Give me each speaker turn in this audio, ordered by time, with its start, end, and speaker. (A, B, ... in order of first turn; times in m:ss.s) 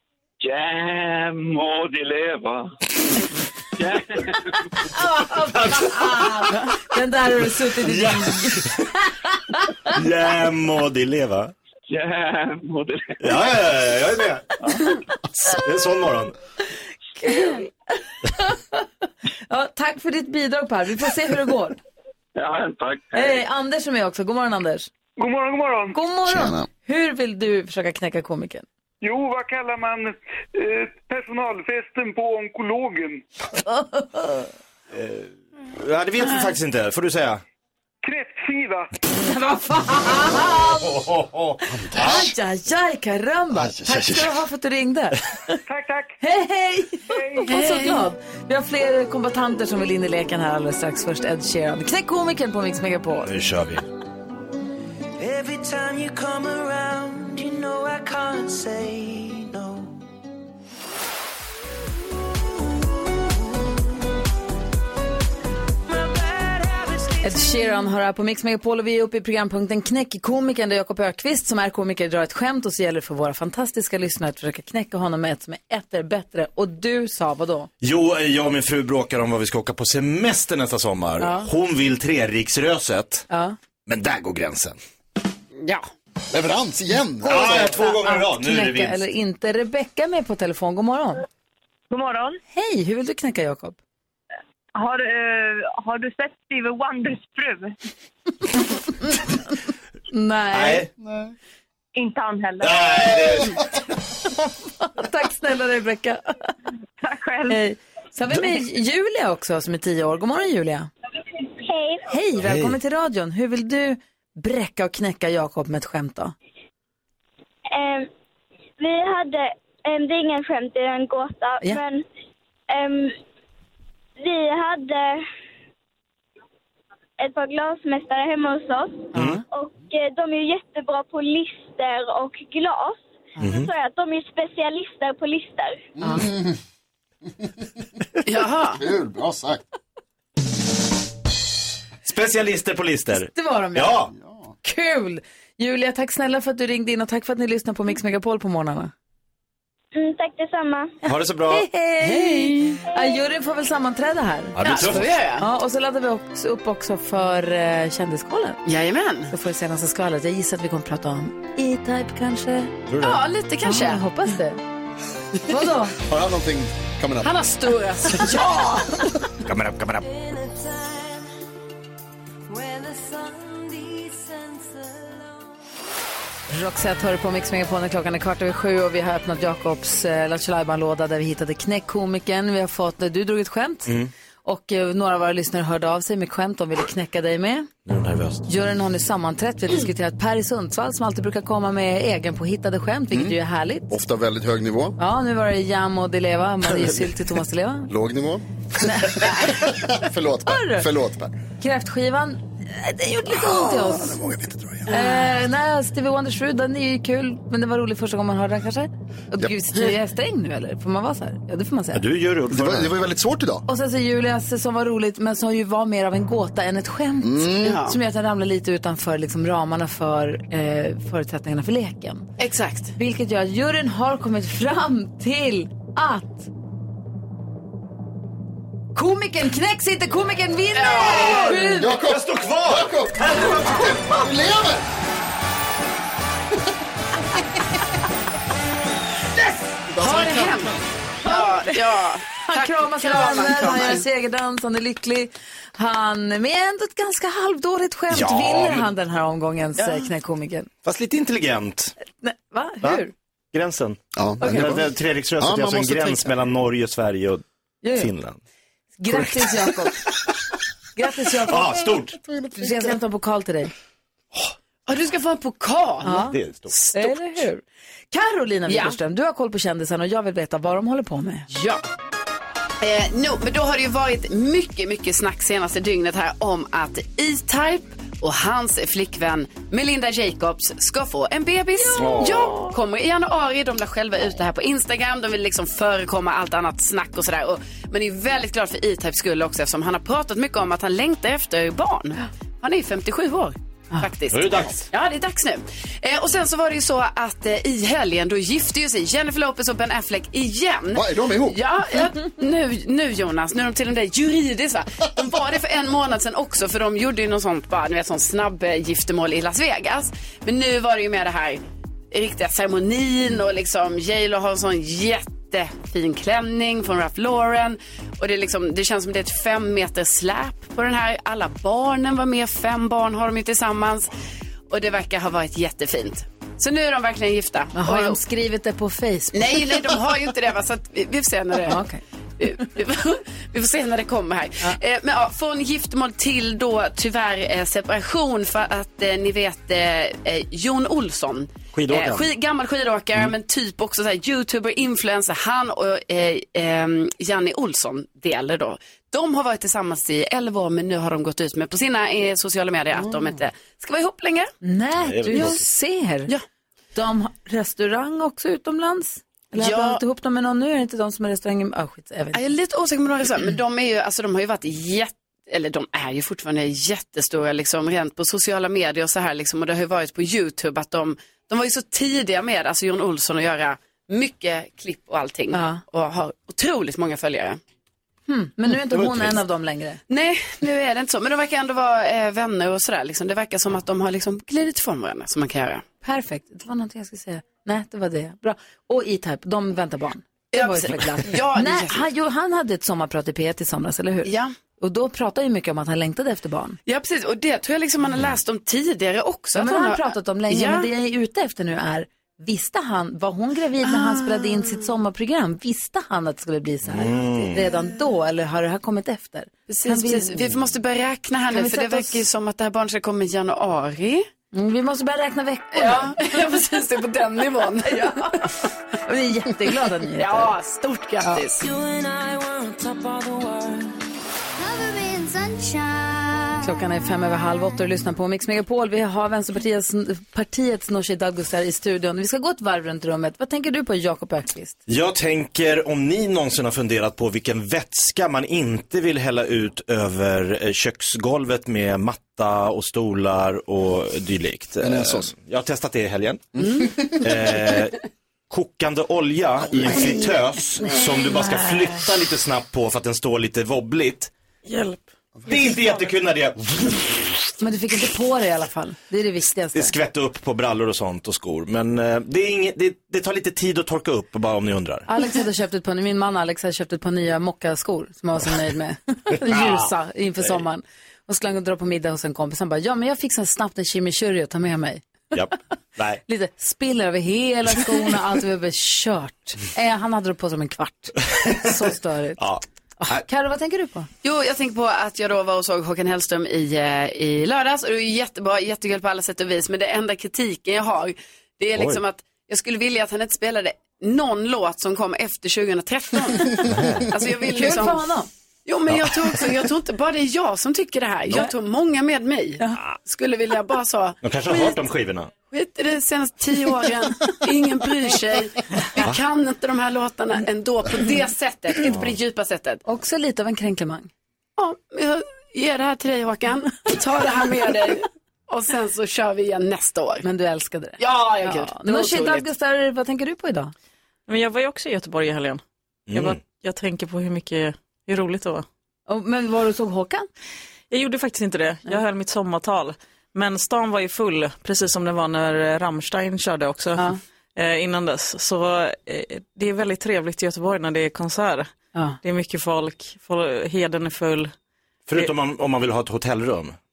0:00.4-0:02.7 A
0:03.8-0:04.6 A
0:04.9-0:08.7 B
0:05.5-0:06.4 C
0:07.8-0:08.9 C
0:09.2-0:09.9 B
0:09.9-0:11.5 C
0:11.9-0:13.5 A
0:13.2-0:14.5 C
0:15.3-0:16.3 C
0:17.2-0:18.8 B
0:19.5-0:21.8 B
0:22.4-0:23.4 A
0:23.1-0:24.9 B
0:25.2-0:26.0 D
0:25.9-0:28.6 B
0:26.2-0:26.6 E
0:29.0-0:33.2 D
0:33.6-0:34.5 B
0:34.9-0:37.4 C
0:38.0-0:38.9 D
0:39.2-0:41.0 B
0:40.8-0:42.2 C
0:41.9-0:42.2 E
0:41.9-0:45.5 B
0:45.7-0:46.2 D
0:46.2-0:53.3 B
0:47.1-0:47.4 D
0:47.5-0:48.0 F
0:53.2-0:53.8 C
0:55.2-1:00.0 G
1:05.9-1:07.7 G
1:07.2-1:17.7 B
1:17.8-1:23.2 C
1:21.2-1:21.5 B
1:23.3-1:23.6 B
1:23.9-1:24.8 C
1:26.3-1:27.7 E
1:27.2-1:29.0 C
1:27.3-1:31.2 B
1:31.9-1:32.4 H
1:32.5-1:33.8 B
1:34.8-1:37.7 H
1:40.1-1:40.8 B
1:40.5-1:40.9 C
1:41.9-1:43.1 H
1:42.6-1:43.7 C
1:44.8-1:46.5 B
1:47.0-1:47.6 H
1:47.5-1:50.9 B
1:51.6-1:52.0 I
1:52.1-1:56.3 B
1:52.4-1:52.7 C
1:57.7-1:58.1 I
1:58.8-2:02.0 I
2:02.7-2:03.2 I
2:04.2-2:05.2 I
2:07.2-2:15.7 I
2:09.1-2:09.4 B
2:09.1-2:09.4 C
2:13.4-2:13.7 C
2:16.0-2:16.5 E
2:18.2-2:18.8 F
2:18.7-2:19.6 E
2:22.0-2:24.1 C
2:23.3-2:24.0 B
2:24.6-2:28.9 B
2:29.9-2:30.9 I
2:31.0-2:31.7 C
2:31.5-2:34.6 B
2:32.0-2:32.5 F
2:34.6-2:35.2 C
2:34.6-2:35.4 F
2:35.4-2:38.6 B
2:38.6-2:39.3 F
2:39.3-2:42.7 B
2:42.9-2:43.2 C
2:43.0-2:44.0 F
2:43.6-2:44.6 B
2:45.5-2:45.9 B
2:46.0-2:47.3 E
2:47.2-2:48.8 F
2:48.2-2:49.0 B
2:49.4-2:50.0 C
2:50.0-2:51.3 G
2:52.5-2:55.5 G
2:56.5-3:07.7 B
3:03.8-3:04.1 C
3:07.8-3:08.4 C
3:08.4-3:13.9 B
3:13.1-3:13.4 E
3:13.9-3:15.0 E
3:15.0-3:17.9 B
3:17.9-3:18.4 E
3:18.8-3:19.8 B
3:19.0-3:21.4 E
3:20.4-3:20.9 B
3:21.6-3:24.2 B
3:23.3-3:24.9 E
3:24.9-3:25.3 F
3:24.9-3:32.0 B
3:31.9-3:32.9 C
3:32.5-3:33.6 E
3:33.7-3:42.3 B
3:37.2-3:37.8 E
3:37.6-3:38.0 F
3:42.4-3:42.9 F
3:43.0-3:46.5 B
3:48.9-3:51.9 B
3:50.7-3:51.6 F
3:51.2-3:54.0 C
3:51.6-3:54.8 E
3:59.9-4:00.8 E
4:00.0-4:04.0 F
4:01.2-4:01.8 B
4:02.4-4:10.7 B
4:08.1-4:08.9 C
4:09.8-4:10.0 F
4:10.8-4:11.9 C
4:12.2-4:13.1 B
4:13.5-4:18.4 C
4:14.1-4:16.5 E
4:17.8-4:18.1 B
4:19.0-4:20.0 B
4:21.0-4:21.8 B
4:21.5-4:22.2 C
4:22.6-4:23.7 B
4:24.8-4:26.3 F
4:26.0-4:26.4 B
4:26.3-4:26.8 C
4:26.9-4:31.5 B
4:28.7-4:29.0 F
4:31.5-4:31.8 F
4:32.8-5:24.1 F
4:54.3-4:54.8 C
5:00.9-5:01.6 E
5:24.7-5:28.2 F
5:27.7-5:29.9 B
5:29.3-5:31.8 F
5:31.7-5:32.0 B
5:32.4-5:54.5 F
5:41.7-5:42.3 C
5:54.6-5:56.3 B
5:55.0-5:55.6 C
5:55.3-5:55.6 F
5:56.9-6:02.4 B
5:59.6-6:00.0 F
6:02.3-6:17.6 F
6:15.5-6:15.8 B
6:18.3-6:20.0 B
6:18.9-6:19.4 C
6:20.1-6:25.8 F
6:26.0-6:36.8 B
6:30.5-6:32.1 F
6:34.2-6:34.5 F
6:36.8-6:40.9 F
6:39.5-6:50.5 B
6:43.8-6:44.8 F
6:46.9-6:47.6 C
6:49.7-6:54.3 F
6:51.5-6:52.2 B
6:54.5-6:56.2 B
6:55.7-6:58.5 F
6:57.9-6:58.5 B
6:59.0-7:00.6 B
7:00.2-7:01.6 F
7:01.6-7:04.0 G
7:06.6-7:14.8 B
7:14.9-7:26.5 C
7:24.8-7:25.3 E
7:27.2-7:28.0 C
7:28.5-7:34.3 C
7:34.7-7:35.0 J
7:35.5-7:37.3 C
7:37.6-7:39.9 B
7:39.7-7:45.1 C
7:45.1-7:55.0 B
7:49.4-7:49.9 C
7:55.3-7:56.2 C
7:56.3-8:04.1 B
8:02.4-8:03.2 C
8:04.2-8:18.1 F
8:16.7-8:17.1 C
8:17.5-8:18.3 B
8:18.6-8:24.8 F
8:24.2-8:25.3 C
8:25.5-8:32.8 F
8:31.8-8:32.1 C
8:32.8-8:34.1 B
8:34.6-8:40.3 F
8:40.2-8:43.7 B
8:41.0-8:42.5 F
8:44.3-8:48.6 J
8:46.1-8:46.4 C
8:49.1-8:50.2 B
8:50.9-9:01.7 J
9:02.2-9:04.5 J
9:05.1-9:06.8 C